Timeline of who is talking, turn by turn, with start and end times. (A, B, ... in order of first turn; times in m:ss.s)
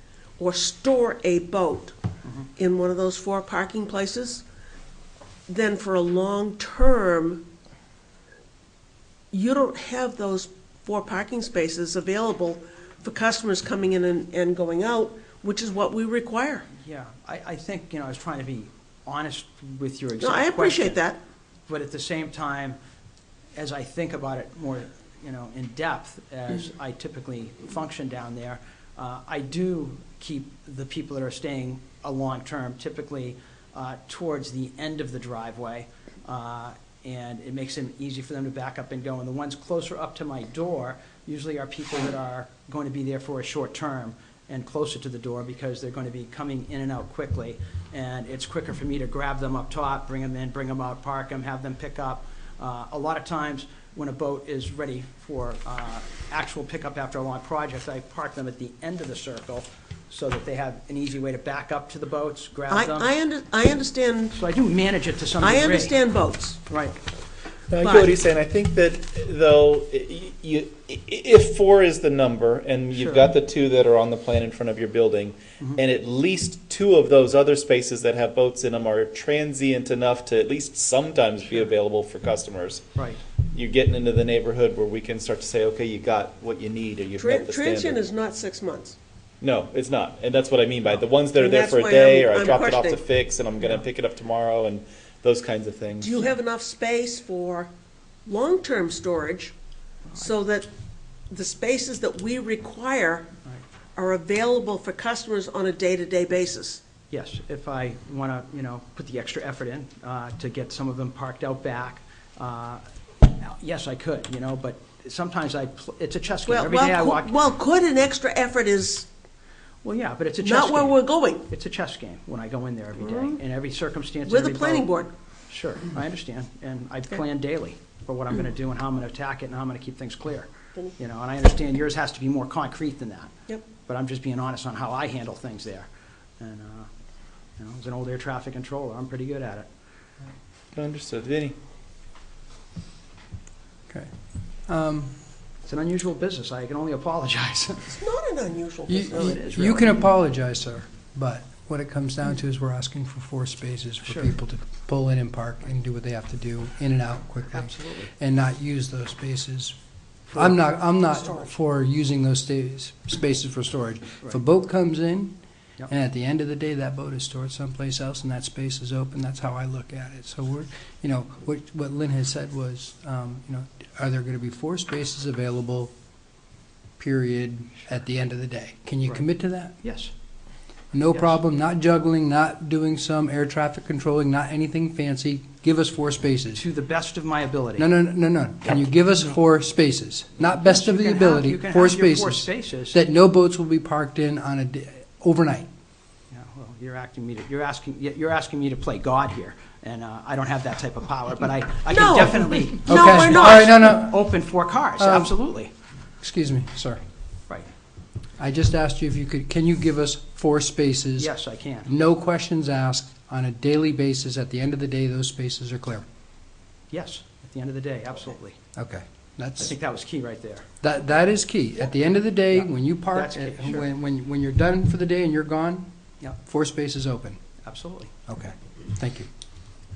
0:00.4-0:01.9 A
0:02.6-0:04.4 A
0:05.5-0:07.4 A
0:09.3-0:16.7 A
0:16.8-0:21.0 B
0:20.2-0:21.2 A
0:21.7-0:22.8 B
0:23.6-1:03.1 B
1:02.7-1:04.4 A
1:04.3-1:06.0 B
1:05.4-1:06.6 A
1:06.7-1:07.0 B
1:07.7-1:22.8 C
1:07.8-1:08.1 A
1:13.0-1:13.3 B
1:23.0-1:23.2 B
1:23.5-1:28.0 C
1:27.2-1:29.0 A
1:29.4-1:36.3 C
1:31.4-1:33.0 A
1:36.0-1:37.7 A
1:38.2-1:39.5 A
1:40.2-1:40.7 A
1:41.3-1:43.3 A
1:44.0-1:46.8 A
1:47.1-1:57.3 B
1:56.4-1:59.1 A
1:59.8-2:04.9 B
2:00.4-2:01.5 A
2:03.0-2:03.4 A
2:04.2-2:05.1 A
2:05.5-2:15.9 B
2:16.4-2:16.9 B
2:17.6-2:19.7 B
2:20.8-2:21.5 C
2:24.7-2:25.1 D
2:25.6-2:27.9 B
2:27.9-2:29.4 A
2:28.9-2:39.8 D
2:29.1-2:30.0 B
2:34.0-2:34.3 B
2:37.5-2:38.1 B
2:40.3-2:45.3 D
2:45.9-2:55.9 D
2:57.0-2:59.8 D
2:59.8-3:00.1 B
3:00.9-3:06.6 D
3:06.6-3:07.9 B
3:07.8-3:15.7 D
3:10.6-3:13.0 B
3:16.3-3:25.7 B
3:21.9-3:23.7 A
3:22.8-3:24.3 D
3:25.0-3:25.4 D
3:26.2-3:27.0 D
3:28.4-3:31.3 D
3:31.2-3:31.9 B
3:31.9-3:36.0 D
3:36.9-3:38.6 B
3:38.8-3:39.8 D
3:39.6-3:40.7 B
3:40.8-3:47.4 D
3:42.5-3:43.9 B
3:47.6-3:48.1 B
3:48.3-3:49.3 D